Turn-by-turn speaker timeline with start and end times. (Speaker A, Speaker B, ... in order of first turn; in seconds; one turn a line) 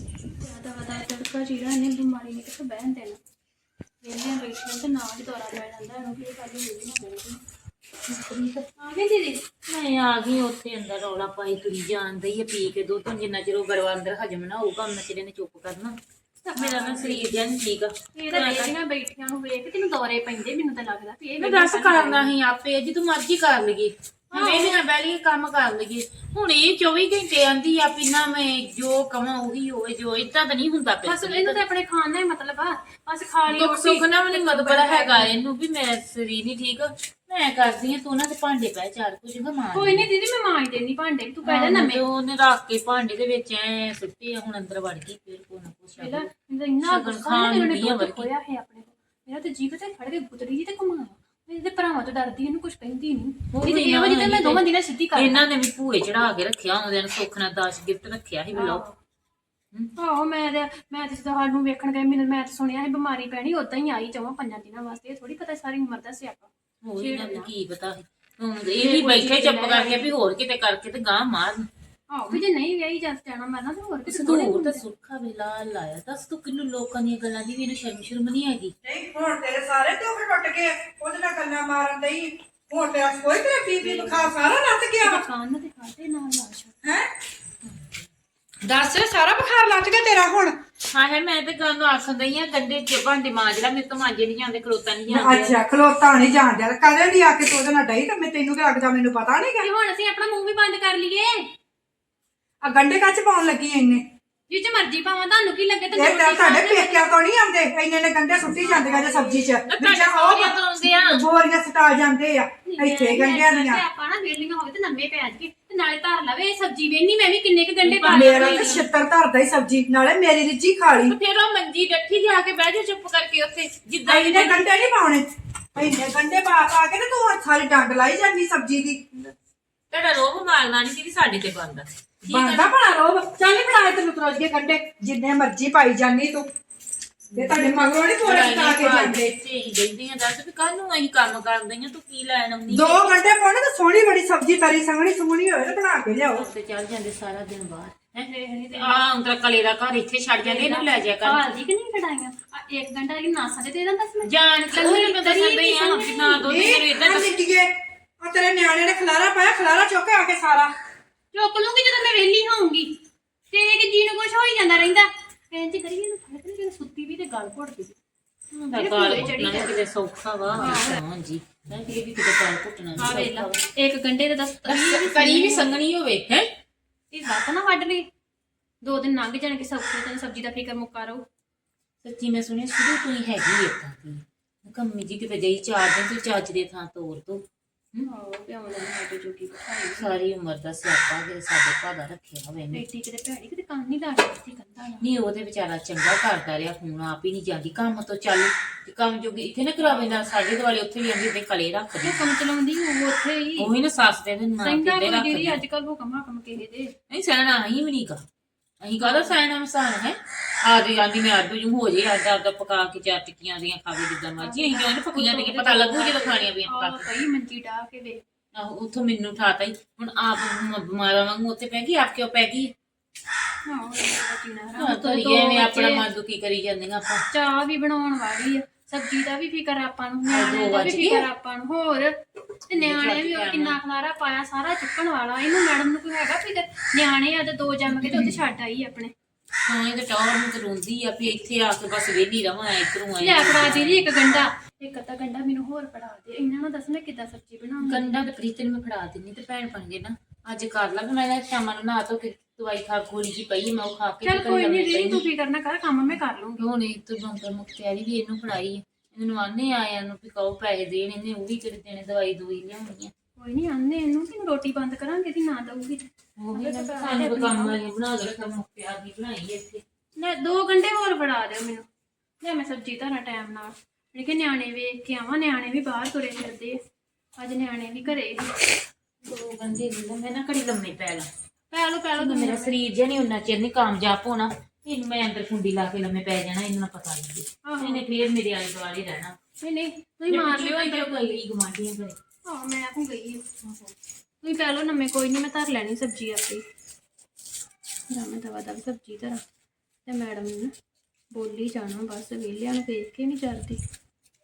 Speaker A: 0.3-3.2
Speaker A: 4.0-7.4
Speaker B: 8.1-8.7
Speaker A: 8.8-9.5
Speaker B: 9.7-16.0
Speaker A: 16.4-17.3
Speaker B: 16.6-18.7
Speaker A: 18.1-22.3
Speaker B: 21.4-31.6
Speaker A: 24.3-24.8
Speaker A: 31.0-35.3
Speaker B: 33.5-40.1
Speaker A: 39.7-42.0
Speaker B: 41.4-46.3
Speaker A: 46.0-55.5
Speaker B: 46.8-48.3
Speaker B: 53.5-58.8
Speaker A: 58.5-59.0
Speaker A: 60.0-67.5
Speaker B: 66.8-71.7
Speaker A: 68.8-70.1
Speaker A: 72.1-74.8
Speaker B: 74.1-78.7
Speaker C: 78.8-85.2
Speaker A: 83.8-84.3
Speaker A: 85.0-86.8
Speaker B: 87.7-87.9
Speaker C: 88.6-90.5
Speaker B: 90.9-95.6
Speaker C: 95.1-99.7
Speaker A: 99.6-101.5
Speaker C: 102.6-104.0
Speaker A: 104.5-107.2
Speaker C: 106.0-113.8
Speaker A: 108.5-109.7
Speaker B: 109.7-111.2
Speaker A: 112.7-118.8
Speaker B: 117.8-118.9
Speaker C: 118.1-121.2
Speaker B: 121.1-124.7
Speaker C: 124.1-129.3
Speaker B: 129.9-132.8
Speaker C: 132.3-136.5
Speaker B: 137.3-143.2
Speaker C: 137.3-139.3
Speaker C: 142.7-146.5
Speaker B: 146.3-151.6
Speaker A: 148.3-149.0
Speaker A: 150.4-156.6
Speaker B: 154.2-157.4
Speaker C: 156.5-160.7
Speaker A: 161.3-162.9
Speaker A: 163.5-168.0
Speaker B: 168.5-173.7
Speaker A: 168.7-169.9
Speaker A: 170.5-171.0
Speaker A: 173.0-175.7
Speaker B: 174.6-176.5
Speaker A: 177.1-178.1
Speaker A: 178.8-181.2
Speaker B: 182.0-188.1
Speaker A: 188.1-190.2
Speaker B: 189.9-192.8
Speaker A: 192.7-195.1
Speaker B: 195.0-202.2
Speaker A: 199.8-200.2
Speaker A: 202.0-203.7
Speaker B: 203.6-205.6
Speaker A: 204.6-206.9
Speaker B: 207.1-208.2
Speaker B: 208.8-217.1
Speaker A: 209.0-209.4
Speaker A: 214.4-218.2
Speaker B: 218.6-222.7
Speaker A: 223.7-226.1
Speaker B: 224.8-227.2
Speaker A: 227.3-239.1
Speaker B: 230.3-231.3
Speaker B: 232.7-233.8
Speaker B: 238.0-238.3
Speaker B: 239.7-244.4
Speaker A: 243.2-248.1
Speaker B: 247.8-255.3
Speaker A: 254.2-256.7
Speaker B: 256.6-263.1
Speaker A: 263.4-267.8
Speaker B: 266.4-269.8
Speaker A: 270.2-271.9
Speaker A: 272.4-276.8
Speaker A: 277.4-278.5
Speaker B: 279.3-281.3
Speaker A: 281.7-282.8
Speaker B: 282.1-289.4
Speaker A: 287.7-288.0
Speaker A: 289.6-291.3
Speaker B: 290.3-292.2
Speaker A: 292.5-293.9
Speaker A: 294.4-296.6
Speaker A: 298.1-299.4
Speaker A: 300.1-300.7
Speaker A: 301.3-303.8